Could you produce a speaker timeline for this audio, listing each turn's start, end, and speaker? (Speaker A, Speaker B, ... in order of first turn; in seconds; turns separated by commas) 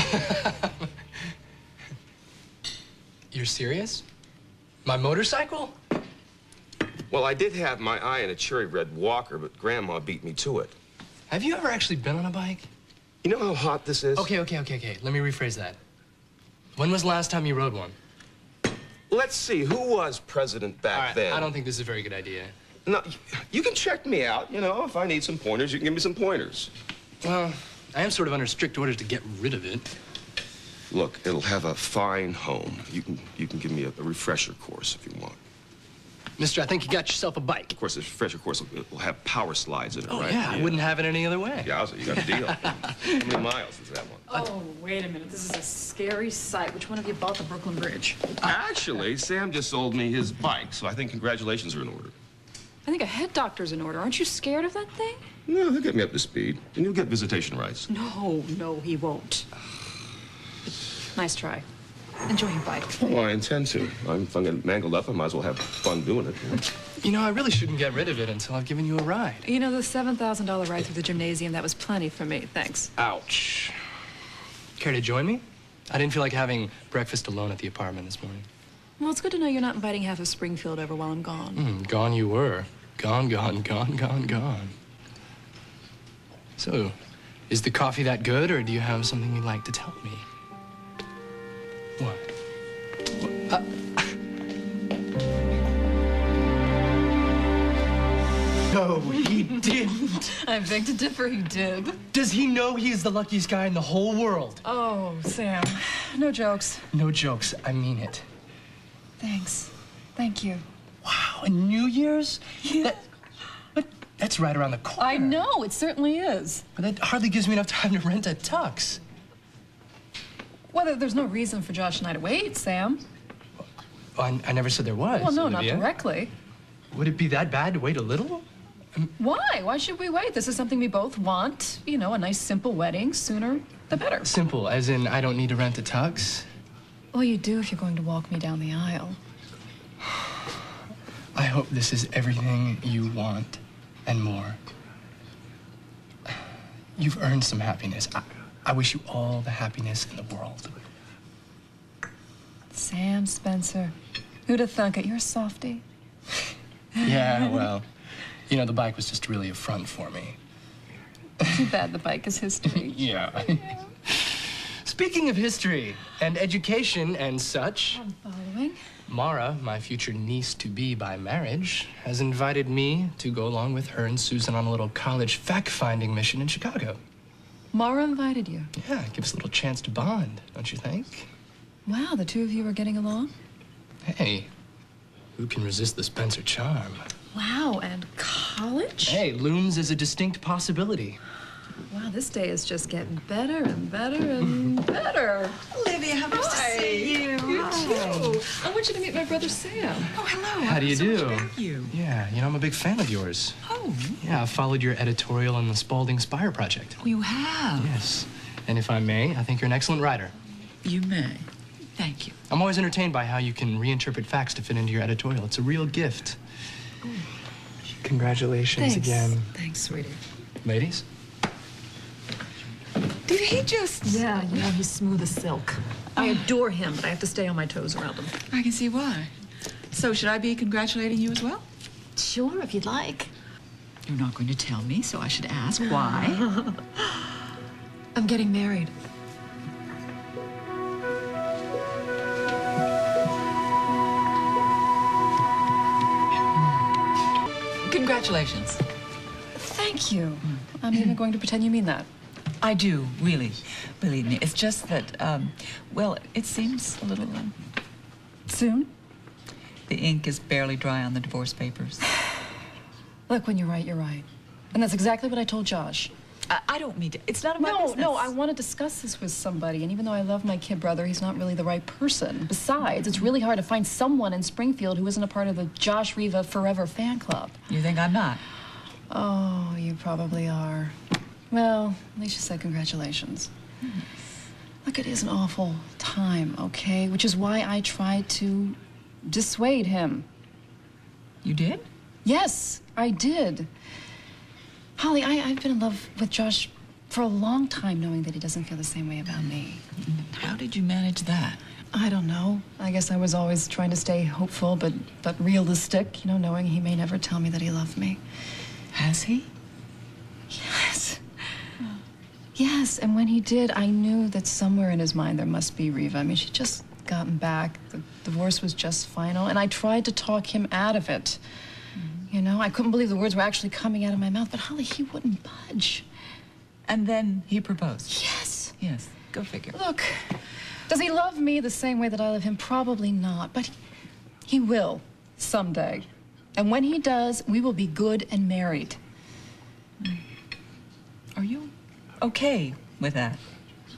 Speaker A: 0.1-0.7, Speaker A: 3.3-4.0, Speaker A: 4.8-5.8, Speaker B: 7.1-10.8, Speaker A: 11.3-12.7, Speaker B: 13.2-14.3, Speaker A: 14.1-15.8, Speaker A: 16.8-17.9, Speaker B: 19.1-21.5, Speaker A: 20.9-22.5, Speaker B: 22.9-26.7, Speaker A: 27.2-29.9, Speaker B: 30.9-35.4, Speaker A: 36.4-37.7, Speaker B: 37.7-40.8, Speaker A: 40.1-43.1, Speaker B: 41.6-44.3, Speaker C: 44.3-48.2, Speaker B: 48.4-52.1, Speaker C: 52.8-55.2, Speaker B: 55.5-57.9, Speaker C: 57.9-59.5, Speaker C: 61.1-61.6, Speaker C: 62.3-63.0, Speaker B: 63.0-66.6, Speaker A: 67.0-69.5, Speaker C: 69.4-72.9, Speaker A: 73.0-73.8, Speaker A: 74.8-78.5, Speaker C: 79.0-81.6, Speaker A: 81.6-84.7, Speaker A: 86.6-87.0, Speaker A: 87.5-90.2, Speaker A: 92.0-92.3, Speaker A: 93.2-94.1, Speaker A: 98.7-100.3, Speaker C: 99.2-102.0, Speaker A: 102.1-104.6, Speaker C: 104.6-106.9, Speaker A: 106.9-108.2, Speaker C: 109.2-110.6, Speaker A: 111.0-113.0, Speaker A: 113.7-115.5, Speaker C: 115.0-116.6, Speaker A: 116.8-119.0, Speaker C: 120.7-123.0, Speaker A: 124.2-125.9, Speaker C: 125.1-126.3, Speaker A: 126.9-128.4, Speaker C: 129.2-134.3, Speaker A: 134.2-136.5, Speaker C: 137.1-139.2, Speaker A: 141.3-144.6, Speaker A: 147.0-150.8, Speaker C: 152.7-153.9, Speaker C: 154.4-155.8, Speaker A: 157.0-157.8, Speaker C: 157.0-157.5, Speaker A: 158.5-160.4, Speaker C: 161.4-163.1, Speaker A: 162.6-168.0, Speaker C: 167.9-168.8, Speaker A: 169.1-177.0, Speaker C: 177.7-178.7, Speaker A: 178.7-181.3, Speaker C: 181.8-183.3, Speaker A: 184.0-184.5, Speaker A: 185.4-187.1, Speaker C: 187.3-189.2, Speaker A: 189.0-191.2, Speaker C: 191.9-195.6, Speaker D: 195.7-198.4, Speaker C: 196.3-200.1, Speaker D: 200.1-201.9, Speaker A: 200.6-203.6, Speaker D: 203.7-204.2, Speaker A: 204.2-207.0, Speaker D: 207.0-207.9, Speaker A: 207.8-210.3, Speaker D: 210.8-212.3, Speaker A: 212.5-216.4, Speaker A: 218.0-219.5, Speaker C: 218.8-220.2, Speaker A: 220.6-221.0, Speaker D: 223.2-224.7, Speaker C: 224.0-228.4, Speaker D: 226.2-226.4, Speaker D: 228.5-229.3, Speaker D: 229.9-231.6, Speaker C: 232.2-233.3, Speaker D: 234.1-236.4, Speaker C: 236.1-236.8, Speaker C: 238.1-238.9, Speaker D: 247.8-248.8, Speaker C: 249.5-252.1, Speaker D: 252.6-257.5, Speaker C: 258.5-258.9, Speaker D: 259.9-262.0, Speaker C: 263.3-266.1, Speaker D: 266.5-268.3, Speaker C: 267.6-277.6, Speaker D: 277.7-278.4, Speaker C: 279.1-280.9, Speaker C: 281.5-283.5, Speaker C: 284.8-290.2, Speaker D: 291.4-291.9, Speaker C: 292.2-293.7, Speaker C: 295.0-299.8, Speaker D: 300.0-301.6, Speaker C: 301.9-308.2, Speaker D: 308.9-309.5, Speaker C: 310.5-311.2, Speaker C: 312.5-321.4, Speaker D: 322.0-322.3, Speaker C: 322.3-326.0, Speaker D: 326.9-328.2, Speaker C: 328.1-328.8, Speaker D: 328.8-329.8, Speaker C: 329.7-333.7, Speaker C: 334.4-339.0, Speaker D: 341.3-343.4